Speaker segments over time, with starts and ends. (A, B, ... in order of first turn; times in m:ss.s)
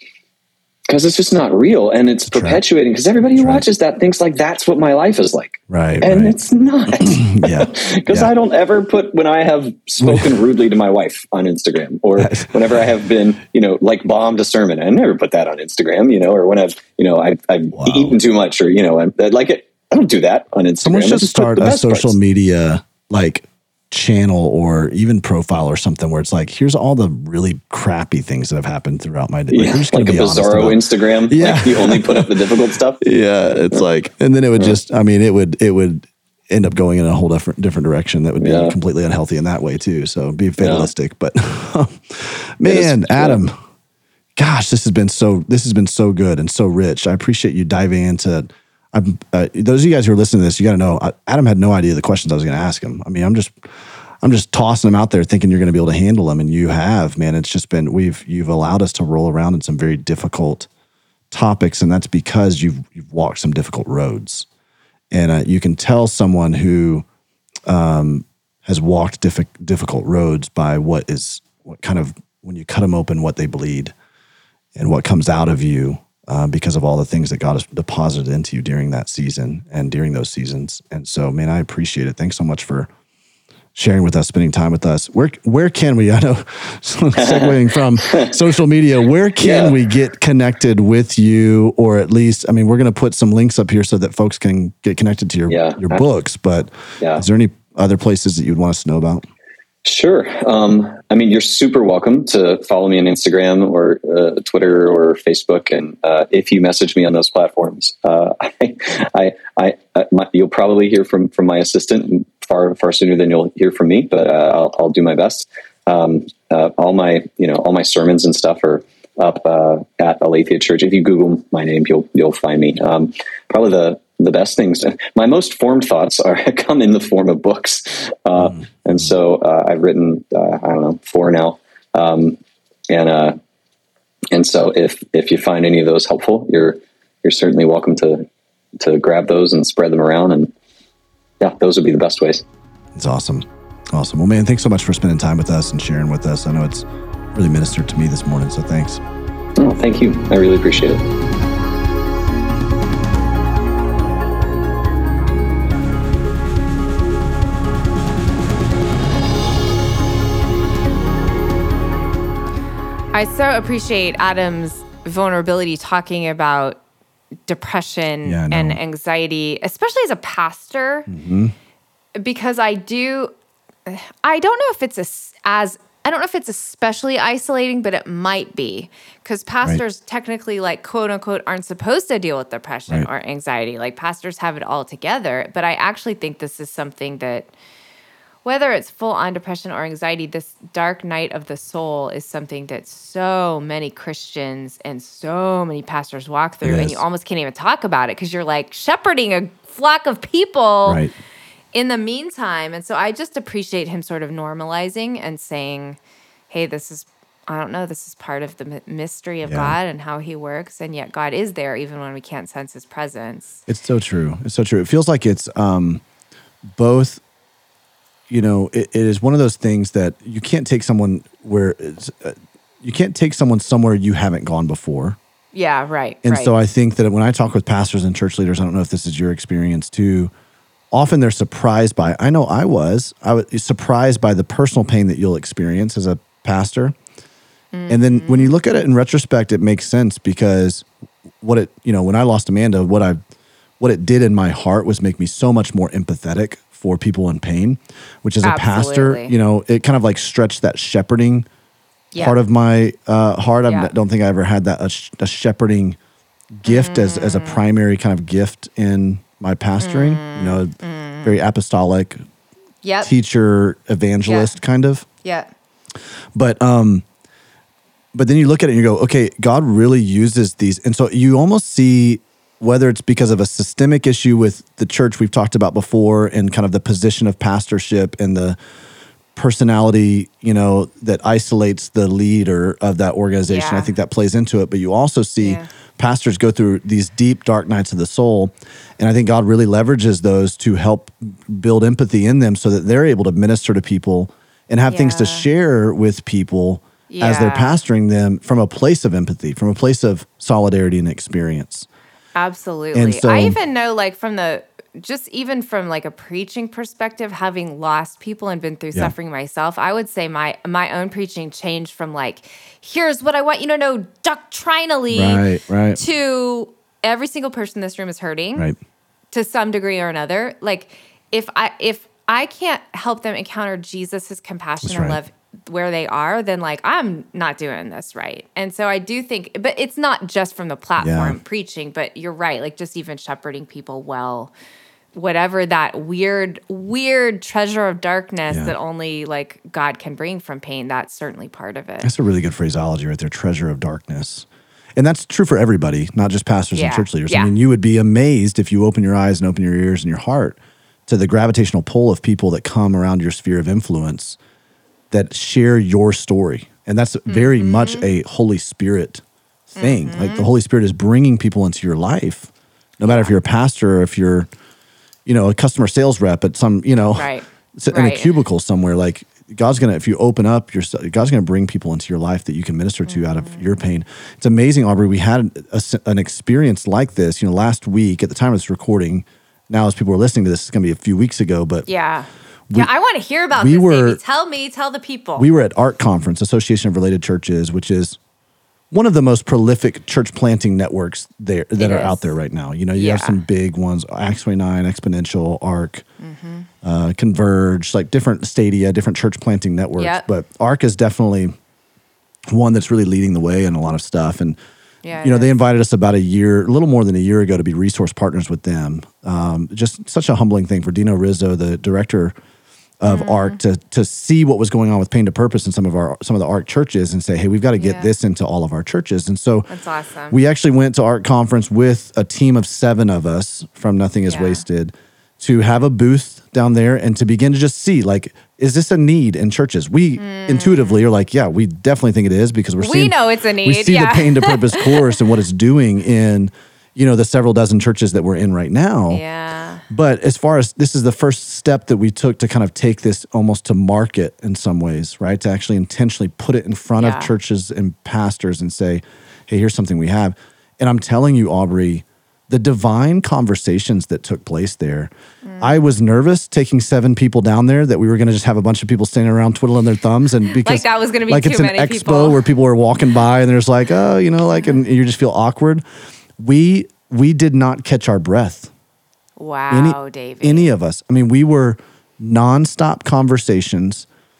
0:00.9-0:22.2 A
0:02.3-0:02.6 B
0:03.3-0:03.6 B
0:05.7-0:06.4 B
0:07.0-0:08.3 B
0:10.0-0:10.3 B
0:12.2-0:12.5 B
0:17.7-0:18.2 B
0:20.8-0:32.4 B
0:29.5-0:33.0 A
0:33.0-0:43.6 B
0:38.4-0:38.8 A
0:40.6-0:40.9 A
0:42.6-0:43.4 A
0:44.4-0:53.5 B
0:54.2-1:00.7 B
1:01.3-1:04.5 B
1:05.1-1:07.0 B
1:07.7-1:13.9 B
1:14.8-1:22.9 B
1:23.7-1:39.3 B
1:27.2-1:28.3 A
1:29.4-1:29.8 A
1:35.5-1:36.0 A
1:39.8-2:13.4 A
2:08.4-2:09.0 B
2:14.3-2:18.3 A
2:18.8-2:20.5 A
2:21.4-2:22.4 A
2:22.9-2:29.0 B
2:29.6-2:31.0 A
2:43.1-2:46.8 C
2:47.5-2:51.1 C
2:48.2-2:48.8 B
2:51.1-2:51.5 B
2:52.2-2:53.3 C
2:53.8-3:07.5 C
3:08.4-3:21.0 C
3:16.6-3:17.0 B
3:20.8-3:21.1 B
3:21.7-3:26.0 C
3:26.5-3:33.6 C
3:29.4-3:29.7 B
3:33.7-3:36.0 B
3:36.8-3:37.2 B
3:38.3-3:45.2 B
3:45.5-3:46.5 C
3:46.2-3:50.3 B
3:50.9-3:56.9 B
3:57.7-3:58.5 C
3:57.9-4:00.8 B
4:01.4-4:03.2 B
4:03.8-4:11.4 B
4:08.4-4:09.3 C
4:12.2-4:16.0 B
4:16.6-4:22.2 B
4:16.6-4:17.6 C
4:19.8-4:21.4 C
4:22.8-4:23.1 C
4:23.0-4:25.0 B
4:24.2-4:24.5 C
4:25.2-4:25.5 C
4:26.3-4:27.0 B
4:28.1-4:38.6 B
4:39.3-5:01.9 B
4:43.5-4:43.9 C
4:45.4-4:45.6 C
4:54.9-4:55.5 C
4:57.1-4:57.8 C
5:02.3-5:15.4 C
5:02.9-5:03.6 B
5:15.1-5:16.0 B
5:15.9-5:18.7 C
5:19.3-5:34.5 C
5:24.8-5:25.2 B
5:31.0-5:31.4 B
5:35.1-5:42.1 C
5:38.5-5:38.7 B
5:42.0-5:54.4 B
5:46.7-5:47.5 C
5:55.1-6:02.5 B
5:57.3-5:58.1 C
5:59.8-6:00.5 C
6:03.0-6:04.5 B
6:03.0-6:03.3 C
6:05.2-6:21.8 B
6:07.2-6:08.4 C
6:13.1-6:13.7 C
6:21.9-6:25.5 C
6:23.5-6:24.2 B
6:25.4-6:28.2 B
6:28.9-6:36.0 B
6:31.8-6:32.2 C
6:32.9-6:33.4 C
6:36.2-6:36.7 C
6:36.8-6:41.5 B
6:40.0-6:40.2 C
6:42.5-6:44.6 B
6:45.0-6:45.5 C
6:45.2-6:52.3 B
6:53.0-6:59.7 B
6:53.0-6:53.6 C
6:57.8-6:58.1 C
6:59.7-7:00.4 C
7:00.3-7:19.2 B
7:04.3-7:04.6 C
7:10.2-7:11.0 C
7:12.8-7:15.1 C
7:19.1-7:19.8 C
7:19.9-7:45.8 B
7:27.0-7:27.3 C
7:35.4-7:35.8 C
7:40.5-7:42.4 C
7:44.5-7:44.8 C
7:46.4-7:48.7 B
7:49.4-7:50.7 C
7:49.7-7:54.1 B